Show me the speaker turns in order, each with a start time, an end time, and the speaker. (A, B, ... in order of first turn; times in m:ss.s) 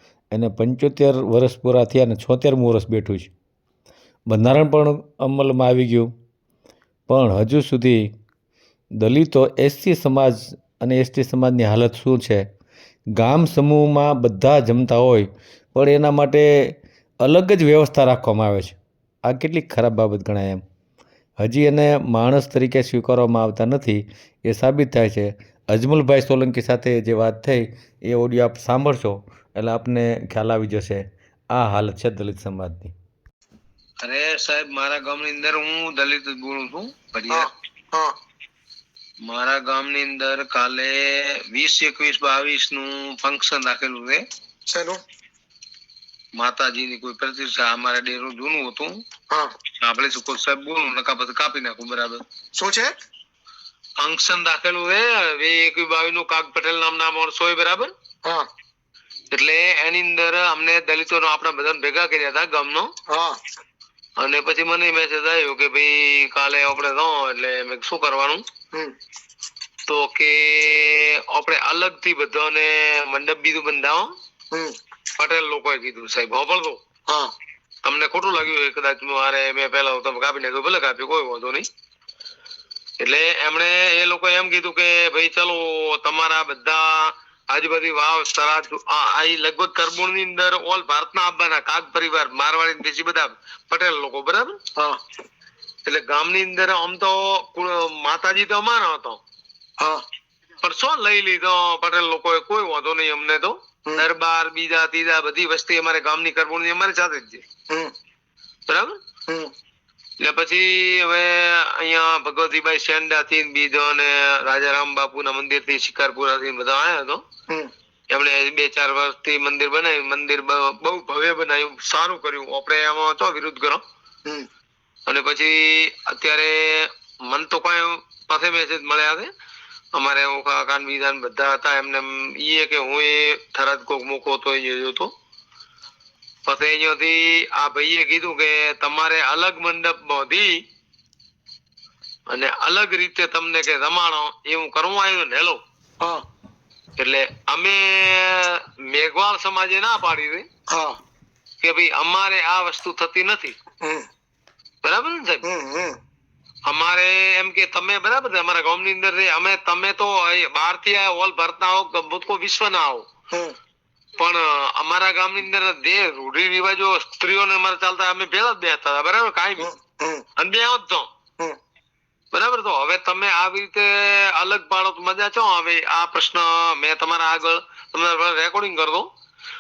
0:00.3-0:03.3 A
0:04.3-0:06.1 A
0:07.1-0:08.0 A
0:09.0-0:12.5 A
0:13.1-0:20.6 A
0:21.4-0:32.9 A
0:34.0-0:37.5 B
0:37.3-0:38.1 C
0:39.2-0:44.2 B
0:44.7-0:45.0 C
0:46.4-0:49.0 B
0:49.8-0:52.2 B
0:52.6-0:52.9 C
0:54.0-0:57.9 B
0:59.3-1:02.9 B
1:03.1-1:03.4 C
1:04.2-1:08.4 B
1:09.9-1:14.1 B
1:15.2-1:16.8 B
1:17.8-1:21.7 B
1:23.0-1:34.6 B
1:35.8-1:39.2 B
1:40.6-1:47.4 B
1:48.7-1:49.0 B
1:50.2-1:57.2 B
1:58.1-2:03.8 B
2:05.1-2:09.3 B
2:10.0-2:15.1 B
2:16.5-2:20.6 B
2:22.3-2:25.6 B
2:27.0-2:30.5 B
2:30.7-2:31.0 C
2:31.6-2:33.6 B
2:33.8-2:34.1 C
2:34.8-2:35.4 B
2:35.4-2:36.0 C
2:36.7-2:43.1 B
2:44.2-2:49.7 B
2:49.6-2:50.2 C
2:50.4-2:51.1 B
2:52.3-2:59.1 B